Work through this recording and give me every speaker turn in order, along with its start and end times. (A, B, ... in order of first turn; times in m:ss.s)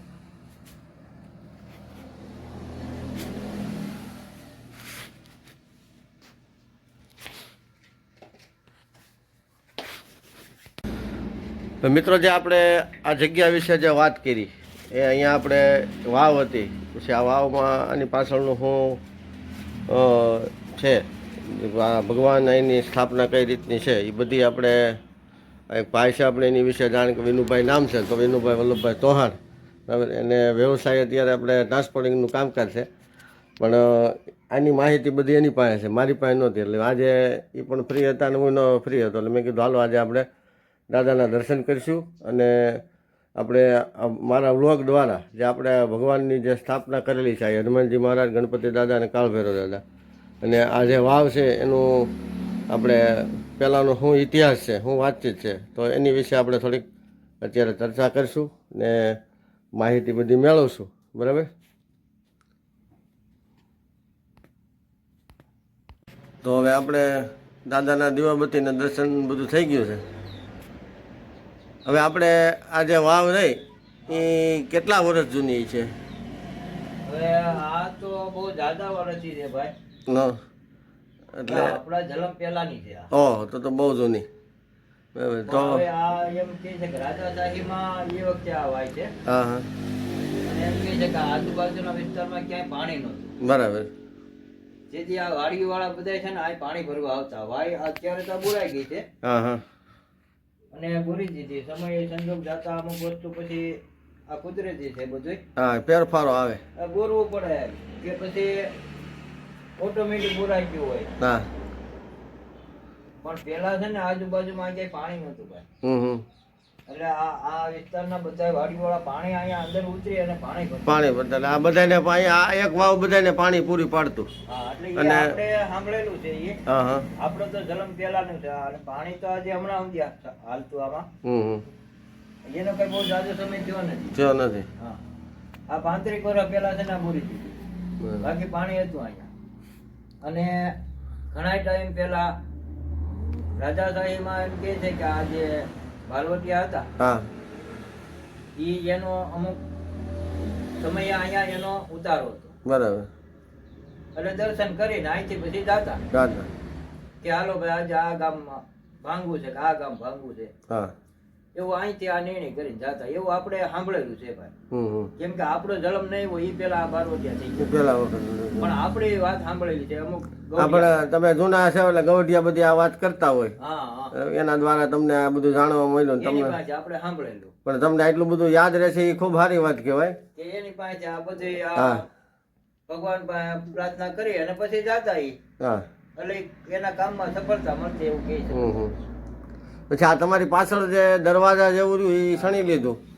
0:11.8-0:19.0 A
0:19.9-0:25.0 A
0:25.7-0:32.9 A
0:33.6-0:40.3 A
0:40.9-0:42.8 A
0:43.4-0:49.8 A
0:50.4-0:52.1 A
0:52.7-0:56.8 A
0:57.4-0:59.2 A
0:59.8-1:01.5 A
1:06.4-1:10.0 A
1:11.9-1:15.9 A
1:17.0-1:19.7 B
1:20.1-1:20.4 A
1:21.4-1:21.8 A
1:21.5-1:23.1 B
1:23.1-1:24.3 A
1:25.1-1:25.8 A
1:25.5-1:29.1 B
1:29.2-1:29.7 A
1:30.4-1:33.4 B
1:33.4-1:33.9 A
1:34.9-1:39.1 B
1:39.2-1:39.6 A
1:40.7-1:45.4 B
1:45.6-1:46.6 A
1:46.8-1:48.7 B
1:49.8-1:51.2 B
1:51.2-1:51.4 A
1:53.2-1:55.6 B
1:55.8-1:56.2 A
1:56.9-2:01.1 B
2:00.9-2:04.3 A
2:04.5-2:06.6 B
2:05.0-2:05.4 A
2:06.7-2:07.1 A
2:07.2-2:11.1 B
2:11.2-2:11.6 A
2:12.5-2:14.2 B
2:14.1-2:14.7 A
2:15.7-2:17.6 B
2:18.0-2:18.3 A
2:18.2-2:19.3 B
2:20.2-2:20.8 B
2:21.3-2:22.4 B
2:23.6-2:26.9 B
2:27.0-2:27.3 A
2:28.6-2:29.6 B
2:30.8-2:32.6 B
2:32.6-2:33.1 A
2:34.1-2:36.0 B
2:36.1-2:36.5 A
2:37.2-2:40.5 B
2:41.6-2:44.5 B
2:44.7-2:45.1 A
2:45.2-2:47.8 B
2:47.6-2:48.7 A
2:48.6-2:51.1 B
2:50.6-2:53.6 A
2:53.6-2:54.1 B
2:54.1-2:56.6 A
2:56.2-2:57.5 B
2:57.6-3:00.2 A
3:00.4-3:02.1 B
3:01.8-3:02.0 A
3:02.9-3:05.4 B
3:05.6-3:05.9 A
3:06.2-3:08.8 B
3:08.5-3:09.0 A
3:09.9-3:13.0 A
3:12.3-3:12.8 B